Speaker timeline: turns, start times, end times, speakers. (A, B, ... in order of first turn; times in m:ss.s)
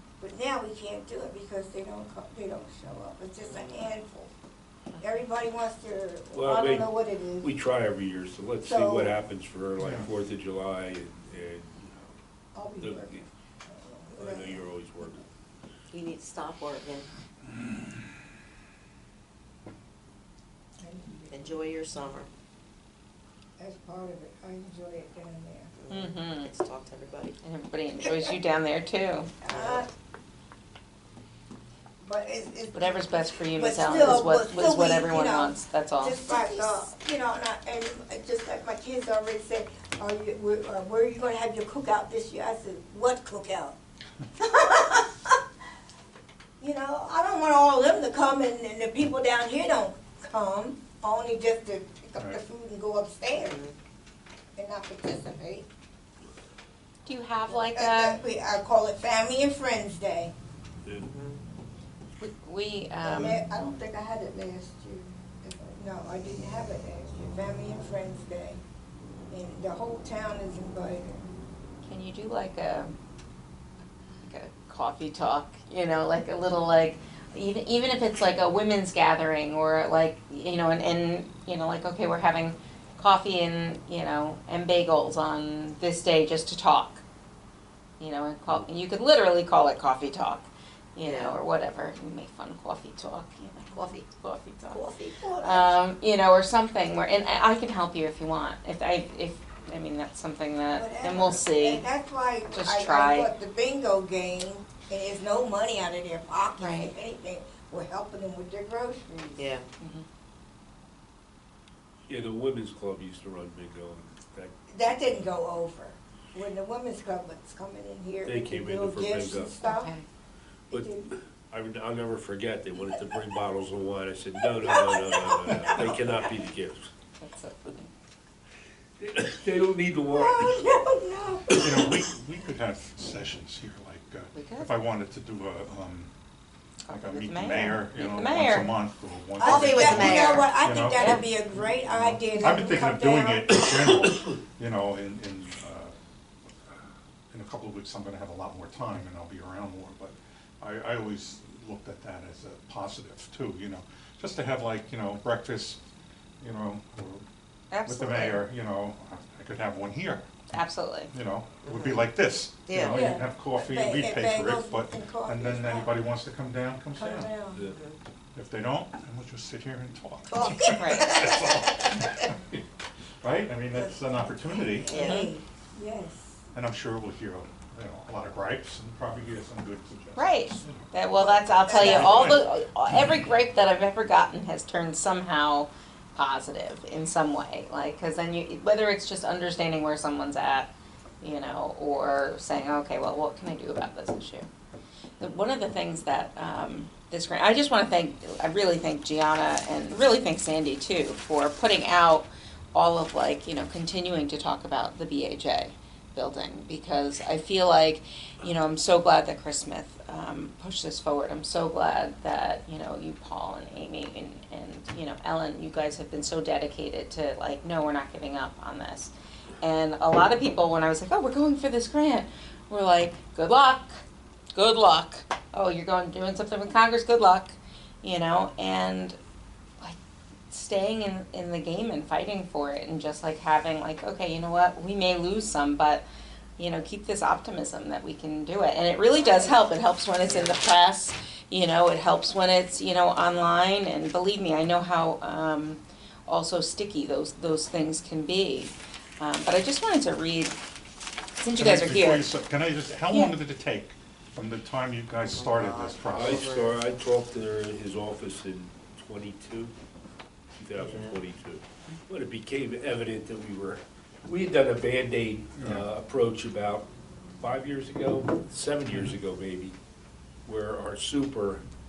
0:00.2-0:04.3 A
0:03.5-0:03.9 B
0:05.0-0:07.5 A
0:06.3-0:12.2 C
0:08.6-0:09.2 A
0:09.8-0:10.1 D
0:12.5-0:14.7 A
0:12.8-0:13.2 C
0:14.1-0:15.2 C
0:15.9-0:17.1 B
0:20.8-0:21.6 A
0:21.3-0:22.3 B
0:23.6-0:25.7 A
0:25.8-0:27.4 B
0:25.9-0:26.5 E
0:27.4-0:29.3 E
0:29.4-0:29.9 A
0:29.5-0:29.8 B
0:32.0-0:43.8 A
0:32.7-0:36.8 E
0:44.4-0:45.4 A
0:46.6-0:53.6 A
0:53.4-0:53.7 B
0:54.6-0:55.7 A
0:57.0-0:58.2 E
0:57.5-1:00.3 A
1:01.0-1:01.4 B
1:02.2-1:03.4 E
1:03.0-1:08.6 A
1:09.3-1:11.3 A
1:11.8-1:12.9 E
1:14.2-1:27.0 E
1:28.0-1:34.8 E
1:31.0-1:31.4 B
1:33.7-1:34.0 B
1:34.7-1:35.8 A
1:34.8-1:35.1 B
1:35.4-1:41.9 E
1:40.8-1:49.4 A
1:42.5-1:43.3 E
1:46.6-1:46.9 E
1:49.4-1:49.7 B
1:49.8-1:50.0 E
1:52.1-1:54.5 C
1:54.7-1:59.9 A
1:58.2-1:59.5 C
1:59.6-2:00.0 E
2:00.7-2:01.1 A
2:01.5-2:06.9 C
2:04.6-2:05.1 A
2:05.5-2:06.0 D
2:07.2-2:07.9 E
2:09.0-2:10.7 C
2:10.1-2:11.9 A
2:11.5-2:16.1 D
2:14.3-2:14.7 E
2:16.8-2:18.7 E
2:16.9-2:25.9 D
2:19.4-2:23.7 A
2:19.4-2:20.5 B
2:20.9-2:21.2 E
2:27.3-2:35.8 D
2:36.4-2:37.2 D
2:37.7-2:38.4 E
2:37.8-2:40.2 D
2:40.5-2:41.1 E
2:41.1-2:47.3 D
2:41.6-2:42.1 B
2:42.7-2:43.0 B
2:42.9-2:45.9 A
2:46.9-2:47.6 A
2:47.7-2:48.0 B
2:48.3-2:52.3 D
2:50.3-2:51.5 A
2:50.8-2:51.1 E
2:51.0-2:51.4 B
2:53.2-2:54.9 D
2:54.7-2:56.4 A
2:54.9-2:55.3 B
2:55.0-2:55.3 E
2:56.5-3:00.9 D
3:00.2-3:14.5 E
3:01.2-3:02.4 A
3:01.7-3:02.5 D
3:15.2-3:44.0 E
3:44.5-3:49.2 E
3:50.5-3:56.0 E
3:56.6-4:10.6 E
3:59.1-3:59.7 A
4:11.4-4:12.3 E
4:11.6-4:16.5 D
4:13.1-4:13.4 E
4:15.2-4:16.9 B
4:16.1-4:19.7 C
4:20.6-4:26.9 C
4:25.6-4:25.9 D
4:27.4-4:29.8 C
4:28.9-4:29.2 D
4:30.4-4:31.6 C